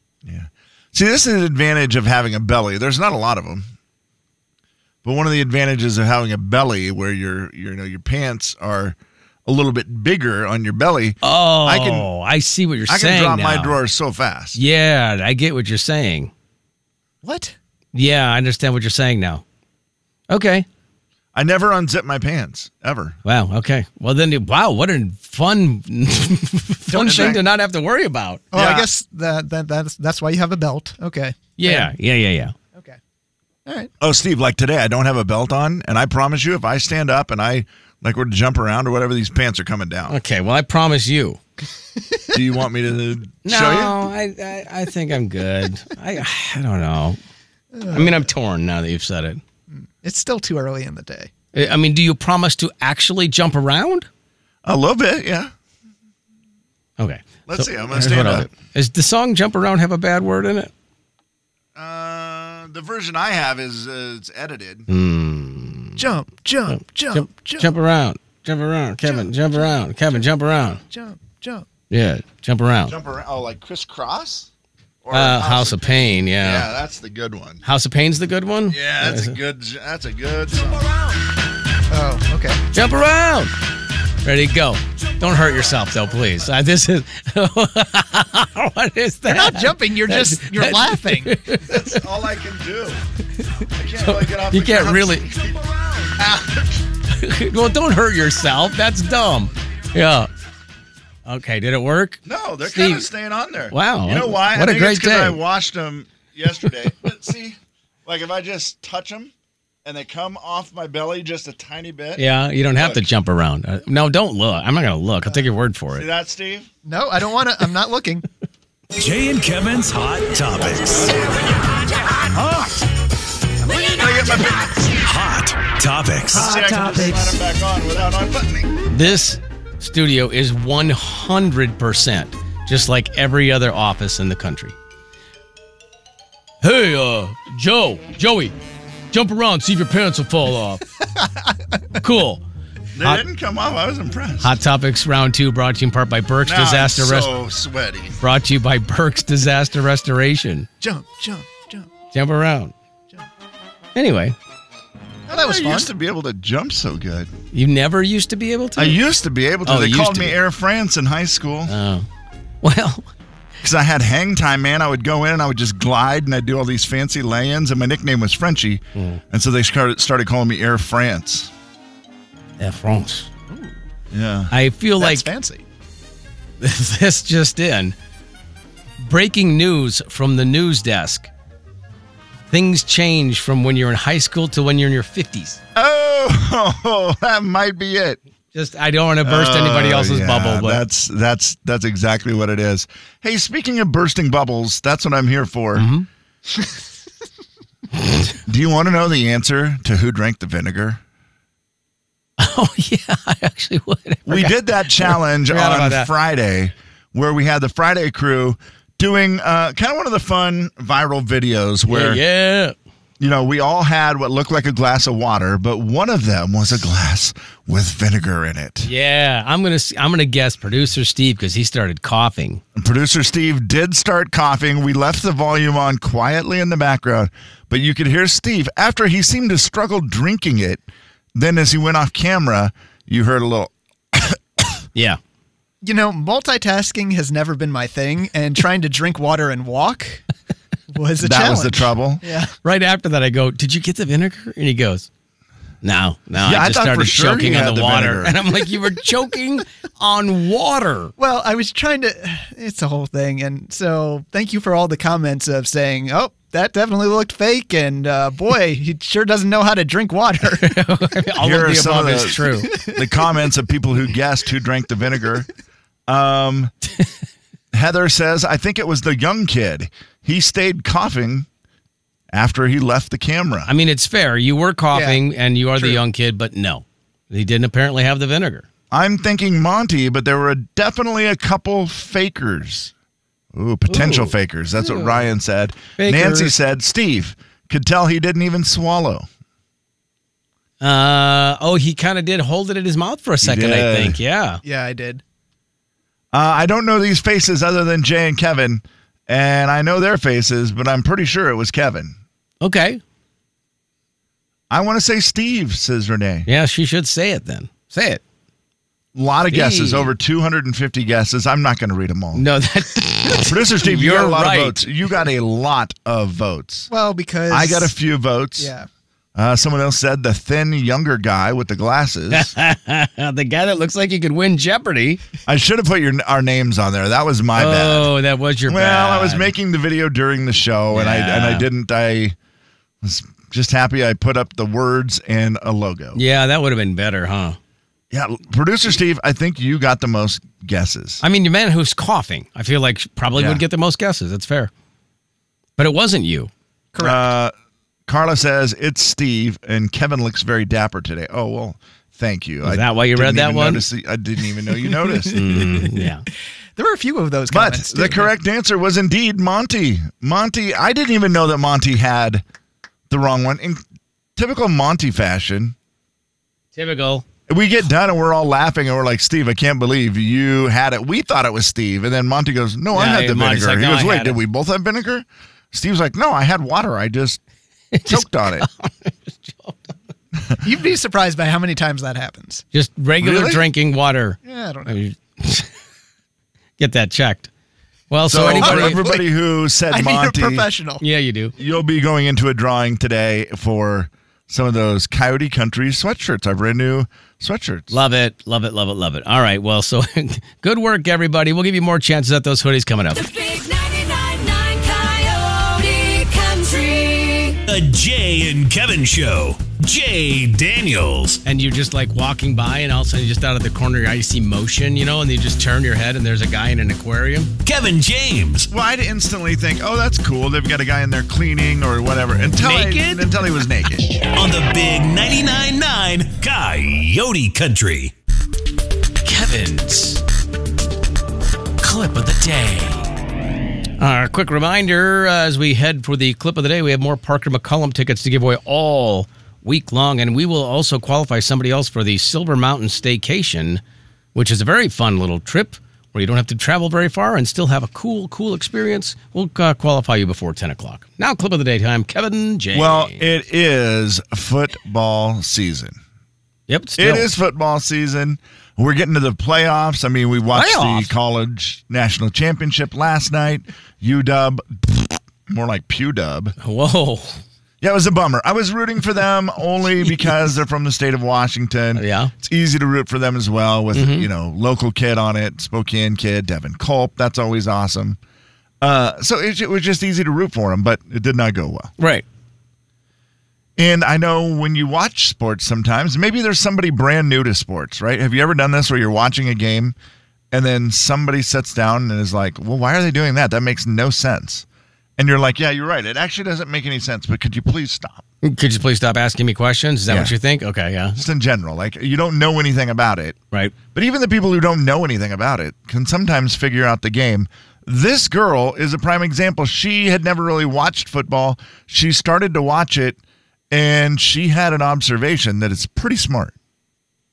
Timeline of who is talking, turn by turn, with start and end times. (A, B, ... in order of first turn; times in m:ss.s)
0:00.2-0:03.7 A
0:05.0-0:12.1 A
0:11.2-0:13.8 B
0:12.9-0:14.6 A
0:14.6-0:16.3 B
0:17.2-0:17.6 C
0:17.9-0:19.4 B
0:20.3-0:20.7 B
0:21.3-0:23.2 A
0:23.2-0:28.9 B
0:26.9-0:27.4 C
0:26.9-0:27.4 A
0:28.5-0:31.9 C
0:31.6-0:32.5 B
0:32.7-0:33.0 C
0:33.7-0:33.9 C
0:34.0-0:40.2 A
0:40.1-0:41.4 B
0:42.3-0:44.0 A
0:43.4-0:47.2 B
0:47.7-0:48.3 C
0:47.9-0:49.4 B
0:49.7-0:51.3 C
0:51.5-0:54.1 B
0:54.6-0:55.5 A
0:57.0-1:00.7 B
0:57.5-0:58.5 A
1:01.8-1:04.9 A
1:04.9-1:06.0 B
1:06.0-1:07.7 C
1:06.7-1:10.8 B
1:09.1-1:09.8 C
1:10.8-1:11.7 C
1:11.9-1:13.0 B
1:12.9-1:14.5 A
1:15.0-1:17.6 A
1:15.1-1:16.7 B
1:17.6-1:19.4 B
1:18.7-1:20.9 A
1:21.9-1:22.6 C
1:22.7-1:23.5 B
1:24.2-1:31.9 B
1:29.3-1:31.4 C
1:31.6-1:33.0 A
1:33.7-1:36.8 A
1:34.0-1:35.3 B
1:37.1-1:40.3 B
1:41.2-1:43.1 B
1:42.2-1:49.3 A
1:43.7-1:45.4 B
1:49.8-1:53.0 A
1:52.2-1:56.1 B
1:55.9-1:56.7 A
1:56.8-1:58.2 C
1:59.0-2:01.2 D
2:00.9-2:01.3 A
2:03.8-2:04.9 A
2:05.0-2:06.6 D
2:06.3-2:08.8 A
2:08.9-2:14.7 B
2:16.6-2:18.6 B
2:19.1-2:20.8 B
2:22.0-2:22.4 B
2:23.0-2:24.6 A
2:24.4-2:27.3 B
2:26.4-2:28.2 A
2:28.2-2:30.7 B
2:30.8-2:31.9 C
2:32.1-2:32.7 B
2:34.0-2:34.4 B
2:35.3-2:37.3 A
2:35.3-2:35.9 C
2:37.5-2:39.0 B
2:38.8-2:41.7 A
2:39.6-2:40.4 B
2:41.7-2:42.1 B
2:42.6-2:43.1 B
2:43.6-2:51.5 A
2:49.0-2:49.2 B
2:52.6-2:53.3 B
2:54.1-2:54.5 A
2:54.5-2:55.3 B
2:55.0-2:55.6 C
2:56.6-2:58.0 B
2:59.0-3:01.3 B
3:02.5-3:05.6 B
3:05.8-3:08.2 A
3:08.5-3:10.8 B
3:09.2-3:15.9 A
3:15.8-3:16.1 B
3:18.4-3:21.0 A
3:22.4-3:26.1 B
3:24.3-3:32.2 A
3:31.9-3:32.8 B
3:33.2-3:38.9 A
3:38.8-3:42.6 B
3:42.8-3:50.8 A
3:51.4-3:54.8 A
3:55.8-4:00.2 C
4:00.9-4:02.5 C
4:01.2-4:02.2 A
4:02.6-4:05.1 B
4:05.8-4:11.1 B
4:06.4-4:08.4 A
4:11.2-4:20.8 C
4:20.6-4:22.7 B
4:21.4-4:25.5 A
4:22.7-4:23.3 C
4:26.1-4:26.7 A
4:27.7-4:31.5 A
4:32.3-4:33.7 A
4:33.7-4:38.7 B
4:34.9-4:35.2 C
4:35.8-4:36.0 C
4:38.9-4:42.9 A
4:43.5-4:49.2 A
4:43.9-4:45.3 B
4:46.0-4:46.6 B
4:50.8-4:54.6 B
4:53.4-4:54.2 A
4:54.6-4:55.2 C
4:56.3-5:02.2 A
5:02.6-5:03.0 B
5:04.7-5:06.5 A
5:06.5-5:08.2 B
5:09.2-5:12.5 A
5:09.5-5:10.1 B
5:12.4-5:14.8 B
5:13.5-5:16.9 A
5:16.9-5:17.9 C
5:17.5-5:18.7 A
5:18.6-5:18.9 C
5:19.4-5:22.5 A
5:22.3-5:25.2 B
5:25.5-5:28.1 A
5:27.6-5:29.5 B
5:28.7-5:32.4 A
5:30.9-5:31.7 B
5:33.0-5:36.2 A
5:36.2-5:37.6 B
5:38.1-5:41.2 A
5:41.2-5:44.7 B
5:43.4-5:43.6 A
5:45.8-5:46.5 B
5:46.9-5:47.3 C
5:47.0-5:47.5 A
5:48.1-5:55.8 A
5:52.6-5:53.8 B
5:55.3-5:56.2 B
5:55.7-5:56.0 C
5:56.8-5:58.3 C
5:57.5-6:02.4 A
6:03.1-6:03.8 A
6:04.4-6:05.8 A
6:06.8-6:07.2 B
6:07.5-6:17.4 A
6:12.9-6:14.4 B
6:17.9-6:20.0 B
6:18.1-6:18.7 A
6:20.6-6:22.6 C
6:22.7-6:25.7 B
6:23.2-6:23.6 A
6:24.4-6:25.0 C
6:26.8-6:27.5 B
6:28.1-6:29.1 B
6:28.3-6:30.7 A
6:28.4-6:29.3 C
6:29.9-6:31.0 C
6:31.0-6:31.6 B
6:31.6-6:37.9 A
6:37.9-6:43.2 B
6:43.2-6:47.6 E
6:47.6-6:51.4 D
6:51.4-6:57.5 B
6:57.6-6:58.7 D
6:58.7-7:04.2 A
7:02.6-7:03.3 B
7:04.2-7:08.1 D
7:09.2-7:10.2 B
7:11.8-7:13.1 B
7:14.0-7:23.8 B
7:24.4-7:33.2 B
7:32.7-7:36.0 A
7:36.7-7:37.3 B
7:37.0-7:46.6 A
7:40.5-7:41.1 B
7:46.6-7:47.4 B
7:47.8-7:58.2 A
7:51.9-7:52.3 B
7:53.9-7:54.3 B
7:58.8-8:01.9 A
8:02.0-8:02.2 B
8:03.8-8:09.9 A
8:10.5-8:14.6 A
8:15.2-8:18.2 A
8:18.4-8:21.2 B
8:20.1-8:20.4 A
8:21.2-8:33.2 A
8:33.7-8:36.5 A